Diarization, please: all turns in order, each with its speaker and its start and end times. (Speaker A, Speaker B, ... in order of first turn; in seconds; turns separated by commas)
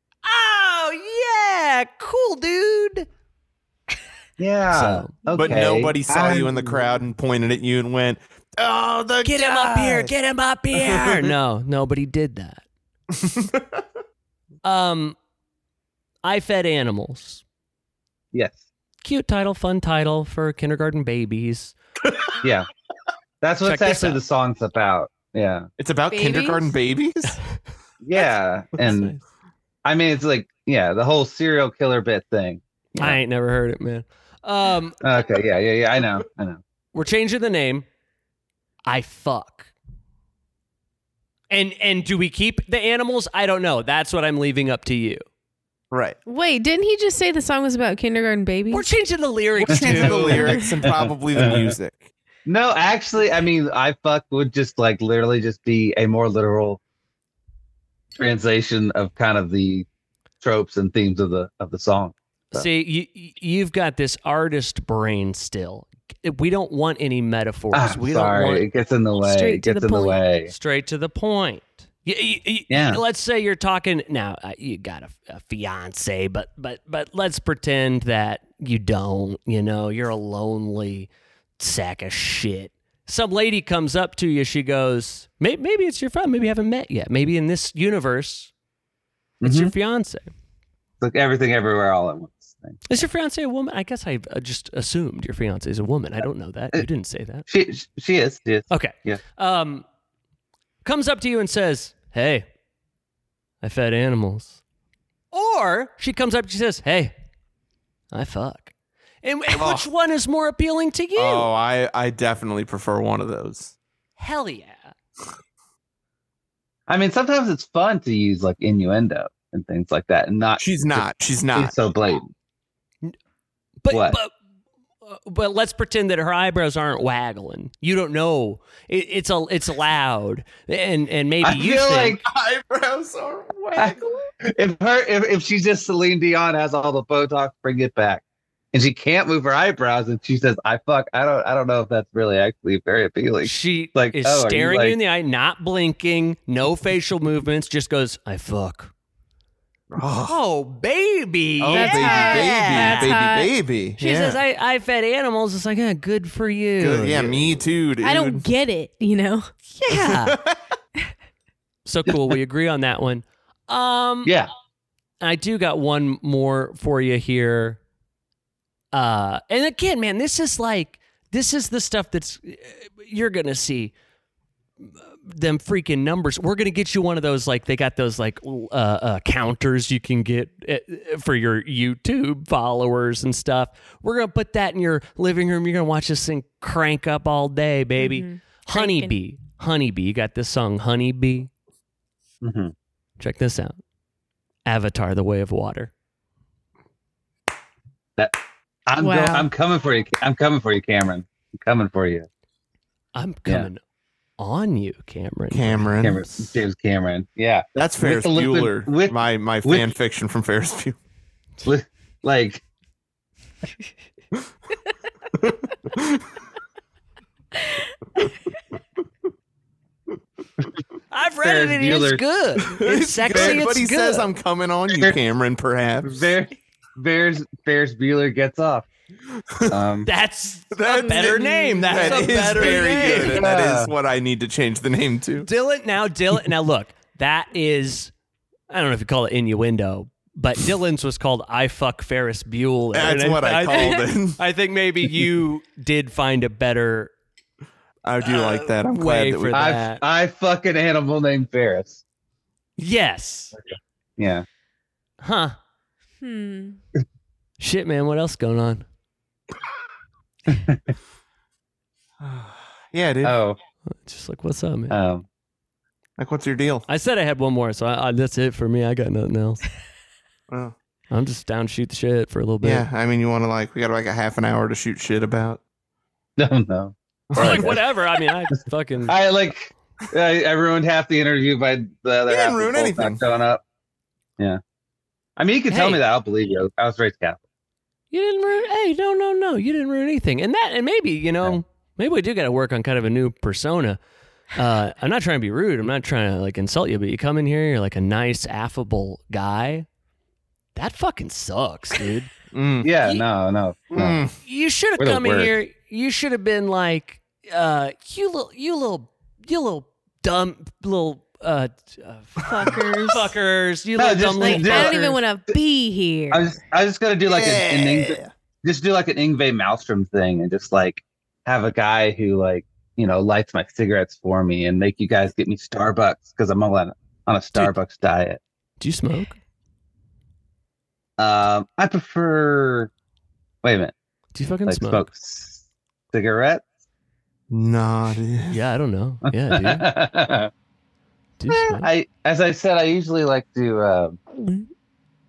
Speaker A: 0.2-3.1, Speaker B: 4.4-6.8, Speaker A: 4.7-5.2, Speaker C: 5.3-10.1, Speaker A: 9.2-12.6, Speaker C: 10.7-11.3, Speaker C: 13.1-13.8, Speaker A: 14.6-15.2, Speaker A: 16.2-17.4, Speaker B: 18.3-18.6, Speaker A: 19.0-21.7, Speaker B: 22.4-22.7, Speaker B: 23.4-25.7, Speaker A: 23.6-24.2, Speaker C: 25.8-27.4, Speaker D: 26.1-26.7, Speaker B: 28.0-29.1, Speaker A: 28.8-29.2, Speaker B: 29.8-32.6, Speaker A: 32.9-35.0, Speaker B: 35.0-36.6, Speaker A: 36.9-37.9, Speaker A: 38.9-39.7, Speaker A: 41.5-45.2, Speaker C: 45.9-46.2, Speaker D: 46.2-48.9, Speaker A: 48.7-50.6, Speaker C: 49.7-52.1, Speaker D: 49.7-50.7, Speaker B: 49.7-51.7, Speaker B: 52.5-56.8, Speaker B: 58.1-59.9, Speaker B: 60.4-62.7, Speaker A: 62.5-68.7, Speaker B: 67.7-70.5, Speaker D: 69.2-70.2, Speaker A: 70.5-88.5, Speaker B: 72.7-73.0, Speaker B: 89.4-89.7, Speaker A: 89.4-90.3, Speaker B: 91.0-93.0, Speaker A: 92.9-97.5, Speaker B: 97.5-99.2, Speaker A: 98.7-99.8, Speaker A: 100.8-102.5, Speaker A: 103.6-104.6, Speaker A: 105.3-107.1, Speaker A: 108.1-111.5, Speaker C: 109.5-109.9, Speaker C: 111.2-113.7, Speaker A: 114.2-114.9, Speaker B: 116.9-122.3, Speaker C: 120.6-121.7, Speaker A: 123.8-124.3, Speaker B: 123.9-124.2, Speaker A: 125.0-132.2, Speaker B: 131.4-132.2, Speaker C: 132.2-134.1, Speaker B: 133.7-145.0, Speaker A: 143.4-148.9, Speaker C: 149.9-150.4, Speaker A: 150.2-153.2, Speaker C: 151.6-154.4, Speaker D: 151.7-153.5, Speaker A: 154.0-157.5, Speaker C: 156.8-158.4, Speaker D: 158.0-159.5, Speaker A: 159.7-160.4, Speaker C: 159.9-160.6, Speaker A: 161.8-164.3, Speaker A: 165.2-167.8, Speaker A: 168.9-173.9, Speaker A: 174.8-191.5, Speaker D: 188.0-189.1, Speaker B: 192.4-192.7, Speaker A: 193.2-193.8, Speaker A: 194.7-195.9, Speaker B: 198.9-202.3, Speaker D: 199.0-199.5, Speaker A: 203.1-203.8, Speaker A: 204.4-206.6, Speaker C: 205.5-206.2, Speaker B: 206.0-209.9, Speaker C: 207.8-211.0, Speaker B: 211.6-212.6, Speaker C: 215.4-216.2, Speaker A: 221.1-224.3, Speaker B: 221.4-222.2, Speaker C: 222.6-226.3, Speaker B: 223.3-223.6, Speaker B: 224.9-225.2, Speaker B: 226.0-228.9, Speaker C: 229.5-229.8, Speaker B: 229.7-230.1, Speaker A: 230.0-233.5, Speaker C: 230.7-235.5, Speaker D: 231.2-232.2, Speaker B: 233.0-233.9, Speaker A: 235.4-238.1, Speaker A: 238.7-247.1, Speaker C: 242.9-244.4, Speaker C: 248.0-249.7, Speaker A: 248.2-250.0, Speaker B: 249.5-252.0, Speaker A: 252.8-253.5, Speaker B: 254.2-254.4, Speaker A: 255.2-255.6, Speaker D: 256.2-256.8, Speaker A: 257.6-258.9, Speaker B: 260.5-260.8, Speaker C: 262.2-263.4, Speaker B: 263.2-263.6, Speaker A: 263.9-264.9, Speaker B: 264.9-265.2, Speaker C: 266.2-266.9, Speaker A: 266.9-269.6, Speaker C: 270.5-270.7, Speaker A: 271.1-272.9, Speaker C: 272.6-275.6, Speaker B: 276.4-277.7, Speaker C: 277.3-277.8, Speaker A: 277.3-279.1, Speaker B: 279.1-283.6, Speaker C: 282.3-283.2, Speaker B: 285.4-287.4, Speaker A: 285.7-286.0, Speaker A: 288.1-294.0, Speaker A: 294.5-299.9, Speaker A: 300.7-302.3, Speaker C: 302.5-302.9, Speaker B: 302.8-304.2, Speaker C: 303.9-304.3, Speaker A: 304.4-315.2, Speaker B: 305.0-305.5, Speaker D: 312.4-313.3, Speaker B: 314.0-315.1, Speaker D: 314.4-316.6, Speaker B: 316.3-328.4, Speaker C: 317.3-318.3, Speaker A: 328.8-329.4, Speaker B: 331.2-332.9, Speaker B: 333.6-333.9, Speaker A: 334.3-335.1, Speaker B: 334.6-335.6, Speaker B: 336.1-336.6, Speaker C: 337.5-338.6, Speaker A: 338.5-339.8, Speaker B: 339.3-340.5, Speaker A: 341.4-341.9, Speaker B: 341.5-344.2, Speaker D: 344.3-344.7